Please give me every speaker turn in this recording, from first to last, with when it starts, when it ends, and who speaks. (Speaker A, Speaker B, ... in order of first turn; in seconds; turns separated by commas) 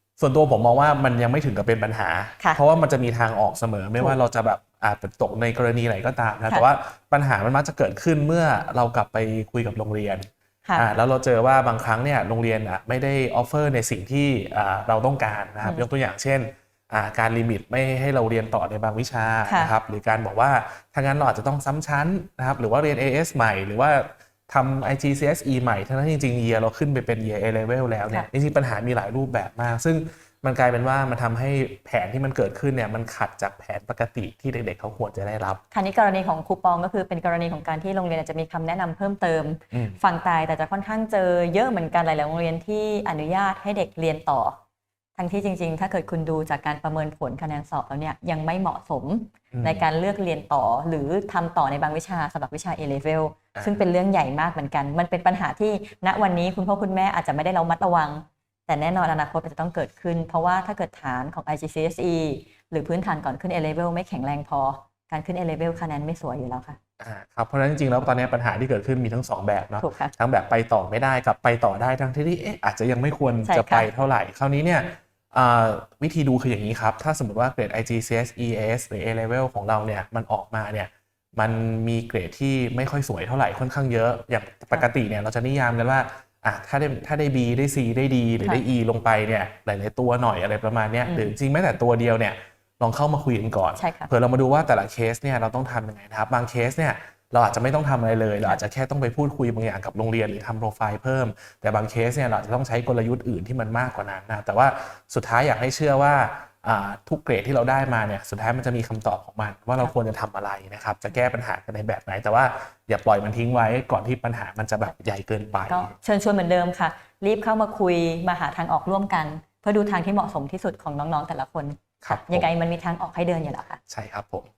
Speaker A: 0.2-35.6, Speaker B: 19.5-19.7, Speaker B: 35.7-44.6, Speaker A: 39.7-40.0, Speaker B: 45.1-66.8, Speaker A: 49.5-49.8, Speaker A: 67.0-115.9, Speaker B: 69.8-70.1, Speaker B: 73.4-73.9, Speaker B: 91.0-91.3, Speaker B: 93.8-94.1, Speaker B: 115.7-123.8, Speaker A: 122.0-122.5, Speaker A: 123.9-124.5